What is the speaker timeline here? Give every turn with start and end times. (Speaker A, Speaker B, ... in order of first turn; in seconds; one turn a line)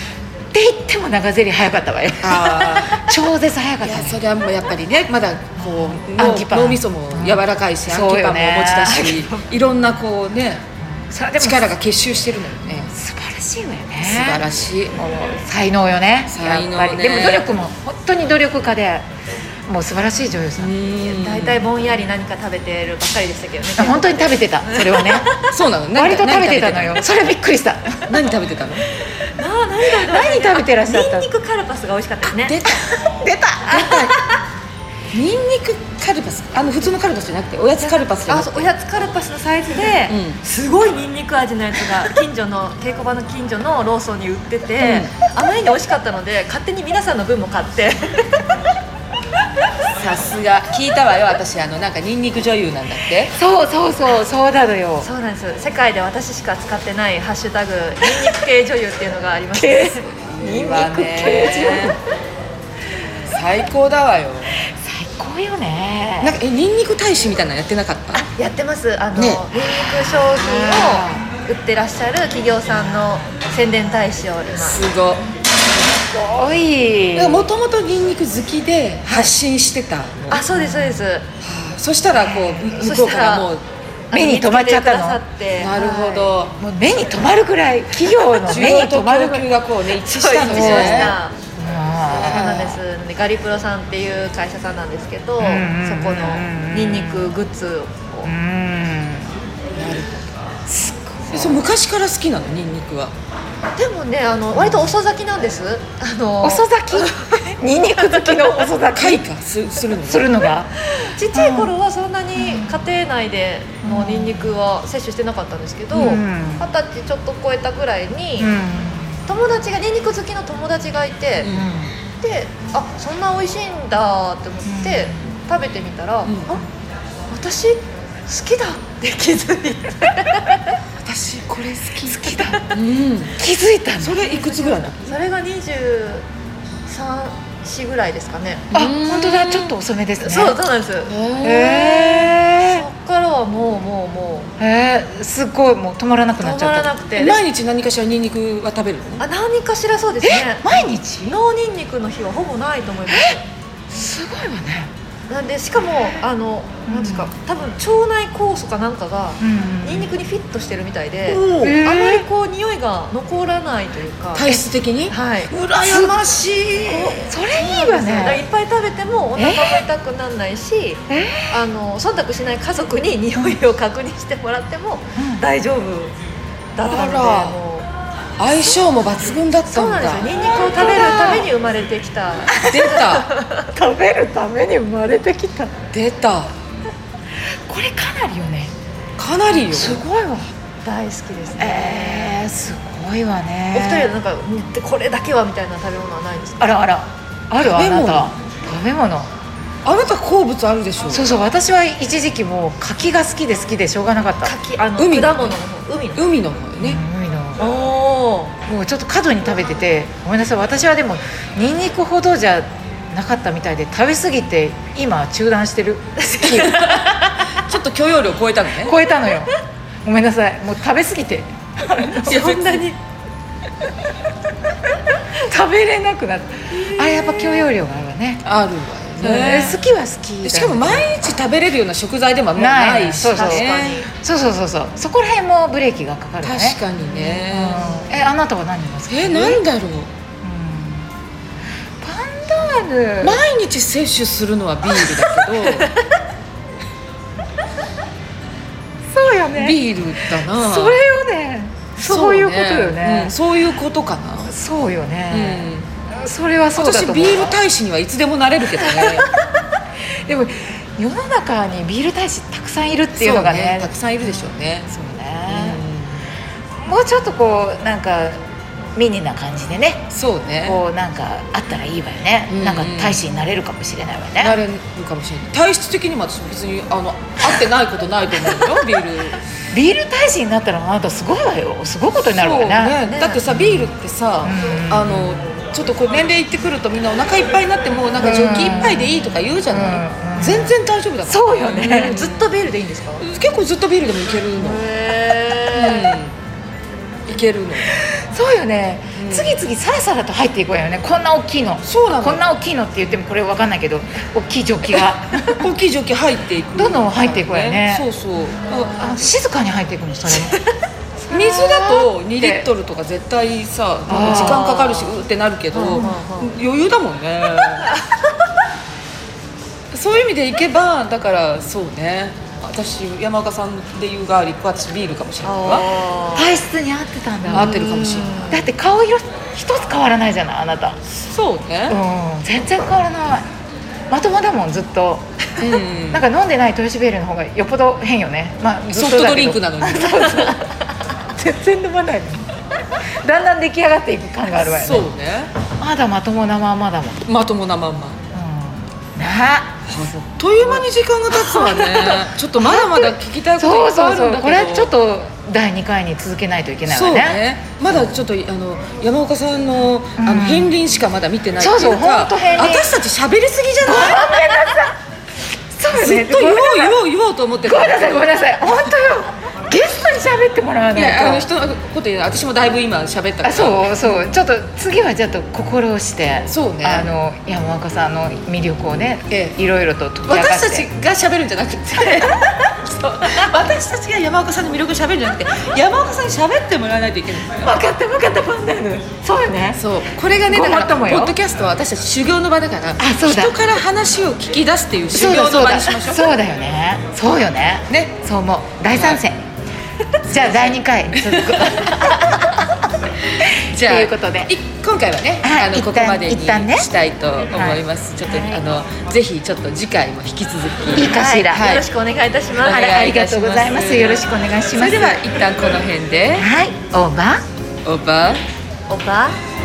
Speaker A: 0.5-4.2
Speaker B: 2.2-3.1
Speaker B: 3.8-10.6
Speaker A: 5.6-9.2
Speaker C: 8.9-9.4
Speaker A: 10.8-11.8
Speaker B: 11.4-12.9
Speaker A: 12.7-14.5
Speaker B: 14.0-15.4
Speaker A: 15.1-19.1
Speaker B: 16.3-17.5
Speaker A: 19.7-20.8
Speaker B: 20.6-21.7
Speaker C: 21.0-25.6
Speaker A: 23.8-25.4
Speaker B: 25.5-27.1
Speaker A: 25.9-28.1
Speaker B: 28.1-28.9
Speaker C: 29.4-32.6
Speaker A: 29.9-31.3
Speaker B: 32.3-33.0
Speaker A: 32.6-34.1
Speaker B: 33.7-34.2
Speaker B: 35.1-38.7
Speaker C: 37.8-48.6
Speaker B: 40.1-40.4
Speaker B: 44.8-45.1
Speaker B: 50.0-53.4
Speaker A: 53.3-55.1
Speaker C: 55.0-60.1
Speaker A: 59.5-62.0
Speaker B: 60.1-62.0
Speaker B: 63.3-64.6
Speaker A: 64.6-66.4
Speaker B: 66.2-68.2
Speaker C: 68.1-74.9
Speaker B: 69.2-69.5
Speaker A: 69.8-71.3
Speaker A: 72.7-74.0
Speaker B: 74.6-75.2
Speaker A: 75.8-77.5
Speaker B: 77.2-80.5
Speaker A: 79.1-79.3
Speaker C: 80.3-81.3
Speaker A: 80.5-81.0
Speaker B: 81.4-83.6
Speaker A: 82.2-82.9
Speaker C: 82.8-83.5
Speaker C: 84.1-85.8
Speaker A: 84.1-89.5
Speaker B: 85.6-86.6
Speaker B: 88.2-91.2
Speaker C: 90.0-91.4
Speaker A: 90.4-92.8
Speaker B: 92.1-92.7
Speaker C: 92.2-98.3
Speaker A: 95.4-97.4
Speaker A: 98.2-99.4
Speaker B: 99.8-100.2
Speaker A: 100.7-101.7
Speaker B: 101.3-103.1
Speaker C: 103.8-107.4
Speaker A: 104.6-104.9
Speaker A: 106.4-109.2
Speaker B: 108.9-110.3
Speaker A: 110.0-110.7
Speaker C: 111.0-118.5
Speaker A: 111.3-111.7
Speaker A: 112.4-112.9
Speaker A: 113.8-114.6
Speaker A: 115.9-116.7
Speaker A: 118.4-119.3
Speaker C: 119.3-121.5
Speaker B: 121.4-121.7
Speaker A: 121.5-121.9
Speaker C: 122.2-126.7
Speaker A: 124.7-125.3
Speaker C: 127.3-130.8
Speaker B: 131.0-133.4
Speaker A: 132.0-132.7
Speaker C: 132.3-132.8
Speaker A: 133.4-134.3
Speaker B: 134.0-135.1
Speaker C: 134.5-136.2
Speaker C: 136.9-138.7
Speaker B: 138.7-139.8
Speaker A: 138.7-140.6
Speaker C: 140.2-141.1
Speaker B: 141.1-142.3
Speaker A: 141.4-142.8
Speaker C: 142.5-144.5
Speaker A: 144.6-146.9
Speaker C: 146.4-147.4
Speaker B: 147.2-149.2
Speaker C: 149.2-153.4
Speaker A: 150.2-151.4
Speaker A: 153.1-153.4
Speaker A: 153.9-154.9
Speaker C: 155.3-165.5
Speaker A: 156.9-157.3
Speaker A: 159.4-160.1
Speaker B: 161.3-161.8
Speaker A: 161.6-162.3
Speaker B: 164.3-167.3
Speaker A: 165.8-166.2
Speaker A: 166.9-168.4
Speaker C: 167.5-176.2
Speaker A: 169.3-169.9
Speaker A: 171.1-171.6
Speaker A: 175.2-175.4
Speaker C: 176.8-177.9
Speaker B: 176.9-177.6
Speaker B: 178.4-180.3
Speaker C: 179.7-183.7
Speaker A: 180.5-181.5
Speaker A: 182.5-183.0
Speaker B: 182.7-183.3
Speaker A: 183.7-185.7
Speaker B: 185.9-186.5
Speaker A: 187.7-188.7
Speaker B: 189.2-190.0
Speaker A: 189.7-190.5
Speaker C: 190.8-192.5
Speaker A: 191.6-194.1
Speaker C: 193.7-196.7
Speaker A: 196.6-199.3
Speaker B: 197.6-198.3
Speaker B: 199.8-201.3
Speaker A: 201.1-204.5
Speaker C: 204.4-206.3
Speaker B: 205.0-205.6
Speaker B: 206.2-207.0
Speaker A: 206.8-207.6
Speaker C: 207.6-208.6
Speaker A: 208.7-216.9
Speaker C: 216.2-217.5
Speaker B: 216.4-219.0
Speaker A: 218.8-219.5
Speaker A: 220.0-222.8
Speaker B: 222.2-222.8
Speaker C: 222.4-223.0
Speaker A: 225.3-228.5
Speaker B: 228.4-229.8
Speaker A: 229.2-231.1
Speaker B: 230.4-234.0
Speaker A: 232.5-239.6
Speaker C: 233.3-234.1
Speaker B: 236.4-238.0
Speaker B: 239.1-240.1
Speaker A: 240.4-241.1
Speaker A: 242.0-243.4
Speaker B: 243.2-245.9
Speaker A: 249.1-249.8
Speaker B: 249.6-251.0
Speaker A: 250.4-253.3
Speaker B: 252.0-254.5
Speaker A: 254.4-257.6
Speaker B: 255.3-255.9
Speaker B: 256.8-259.3
Speaker A: 260.3-265.8
Speaker B: 263.1-264.9
Speaker B: 265.5-266.3
Speaker A: 266.8-268.4
Speaker A: 268.9-270.1
Speaker B: 270.1-270.8
Speaker A: 270.6-274.6
Speaker B: 272.5-273.3
Speaker B: 274.4-279.4
Speaker A: 279.7-285.5
Speaker B: 282.3-292.5
Speaker C: 283.0-283.4
Speaker A: 288.2-292.3
Speaker C: 291.8-293.3
Speaker B: 293.2-294.9
Speaker C: 294.6-296.1
Speaker B: 295.7-296.4
Speaker B: 297.3-297.9
Speaker A: 297.9-305.7
Speaker B: 299.1-299.6
Speaker B: 301.8-302.5
Speaker B: 305.4-309.2
Speaker A: 306.8-308.1
Speaker A: 308.8-310.6
Speaker C: 310.3-310.7
Speaker A: 311.2-312.7
Speaker B: 311.3-317.9
Speaker A: 314.1-314.7
Speaker C: 314.1-315.2
Speaker C: 315.7-316.5
Speaker C: 317.8-318.1
Speaker B: 319.9-325.9
Speaker C: 325.4-326.6
Speaker A: 326.4-331.0
Speaker B: 327.5-328.6
Speaker C: 327.6-328.6
Speaker B: 331.3-332.0
Speaker A: 331.9-333.5
Speaker A: 334.1-340.7
Speaker B: 335.6-336.3
Speaker B: 338.9-340.6
Speaker A: 341.3-342.5
Speaker A: 343.2-345.1
Speaker B: 344.6-345.5
Speaker A: 345.8-347.2
Speaker B: 347.3-348.2
Speaker A: 348.3-349.8
Speaker B: 349.9-354.9
Speaker A: 351.3-358.2
Speaker B: 356.9-364.7
Speaker A: 360.2-360.8
Speaker A: 361.6-362.9
Speaker A: 363.8-365.0
Speaker A: 365.7-367.0
Speaker B: 365.9-368.8
Speaker A: 367.6-371.5
Speaker B: 370.9-374.2
Speaker A: 373.4-380.9
Speaker B: 376.5-377.1
Speaker B: 379.3-379.6
Speaker B: 380.3-387.7
Speaker A: 387.6-389.8
Speaker B: 389.8-396.3
Speaker A: 390.5-391.4
Speaker A: 393.0-393.6
Speaker A: 395.1-399.4
Speaker B: 397.9-398.2
Speaker B: 398.9-399.2
Speaker B: 400.2-402.3
Speaker A: 400.3-402.6
Speaker B: 403.4-411.9
Speaker A: 403.4-404.5
Speaker A: 405.4-406.9
Speaker A: 407.5-408.6
Speaker A: 410.9-411.7
Speaker C: 411.1-412.9
Speaker B: 412.6-416.5
Speaker A: 412.6-415.2
Speaker A: 416.3-417.4
Speaker B: 417.9-418.4
Speaker C: 418.9-419.4